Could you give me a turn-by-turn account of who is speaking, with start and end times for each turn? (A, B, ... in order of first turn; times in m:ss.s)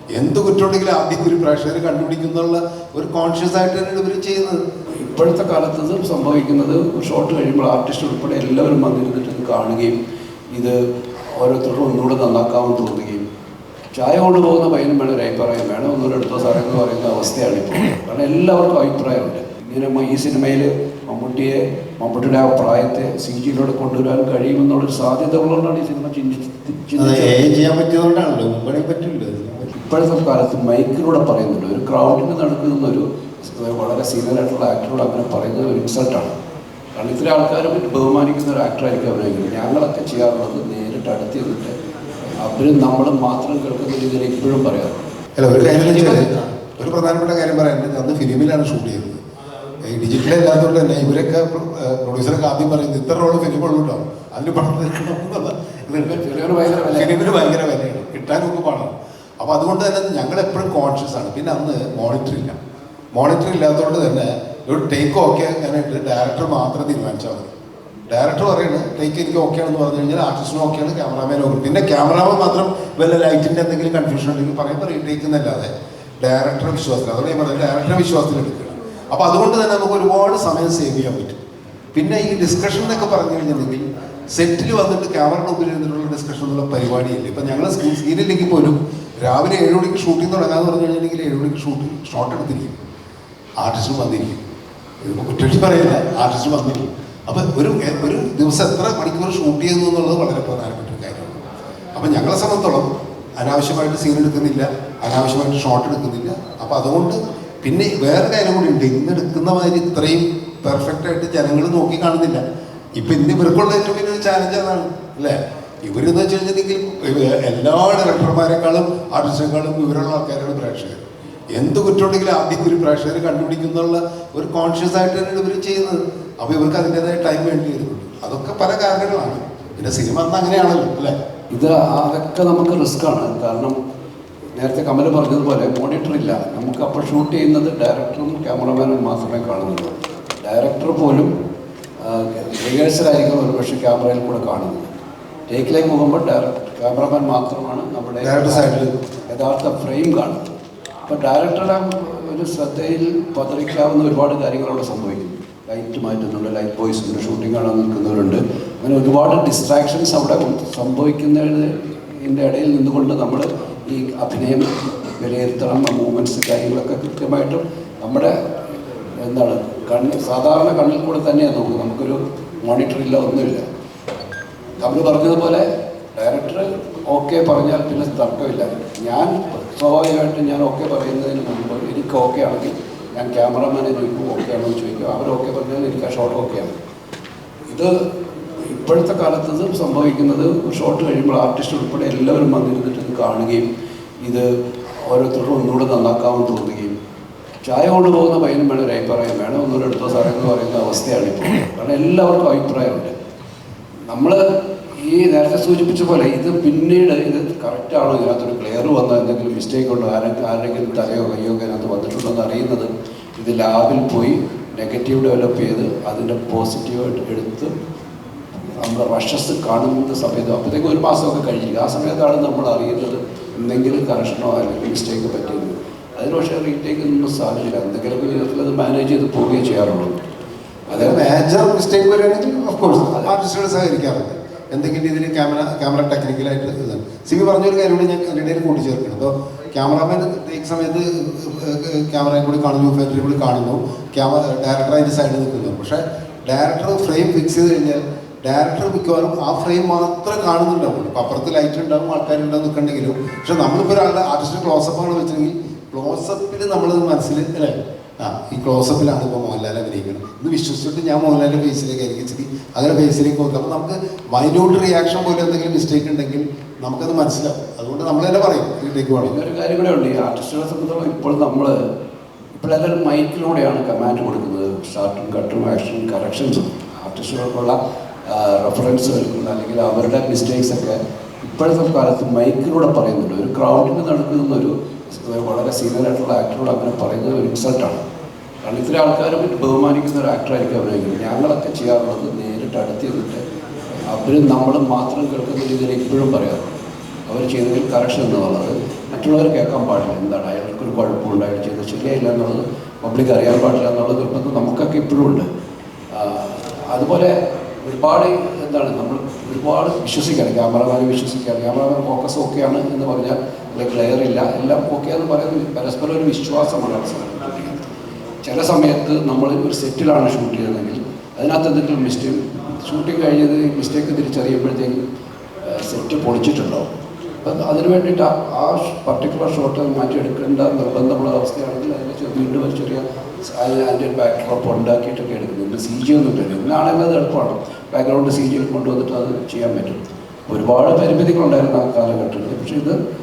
0:00.1-0:04.6 A
0:05.0-0:10.0 B
0:11.3-0:13.2 B
0:13.9-0:27.5 B
0:27.0-0:29.7 A
0:29.7-0:36.3 B
0:37.0-0:41.7 B
0:42.4-0:45.0 B
0:45.4-0:49.2 A
0:45.8-0:46.2 B
0:49.8-1:02.6 A
0:56.0-0:57.2 B
1:03.1-1:07.5 A
1:08.1-1:15.7 A
1:16.2-1:21.4 A
1:21.9-1:32.7 A
1:33.6-1:34.4 A
1:35.0-1:41.4 A
1:42.0-1:42.9 A
1:43.4-1:52.4 A
1:53.0-2:01.0 A
2:01.5-2:11.1 A
2:11.5-2:13.8 B
2:14.6-2:21.3 B
2:22.0-2:24.9 B
2:25.5-2:28.8 B
2:28.2-2:29.0 A
2:29.3-2:30.5 B
2:31.1-2:48.4 B
2:49.2-2:53.6 B
2:54.8-3:06.7 B
3:07.7-3:08.0 B
3:08.6-3:13.6 B
3:15.0-3:16.9 B
3:17.6-3:23.1 B
3:24.1-3:24.4 B
3:25.0-3:37.7 B
3:38.8-3:50.2 B
3:50.9-3:51.2 B
3:50.9-4:29.3 A
4:29.2-4:31.8 B
4:32.6-4:48.0 B
4:48.6-4:53.4 B
4:54.1-4:56.7 B
4:57.3-5:05.5 B
5:06.1-5:17.8 B
5:18.4-5:25.0 B
5:25.6-5:26.9 B
5:27.4-5:43.0 B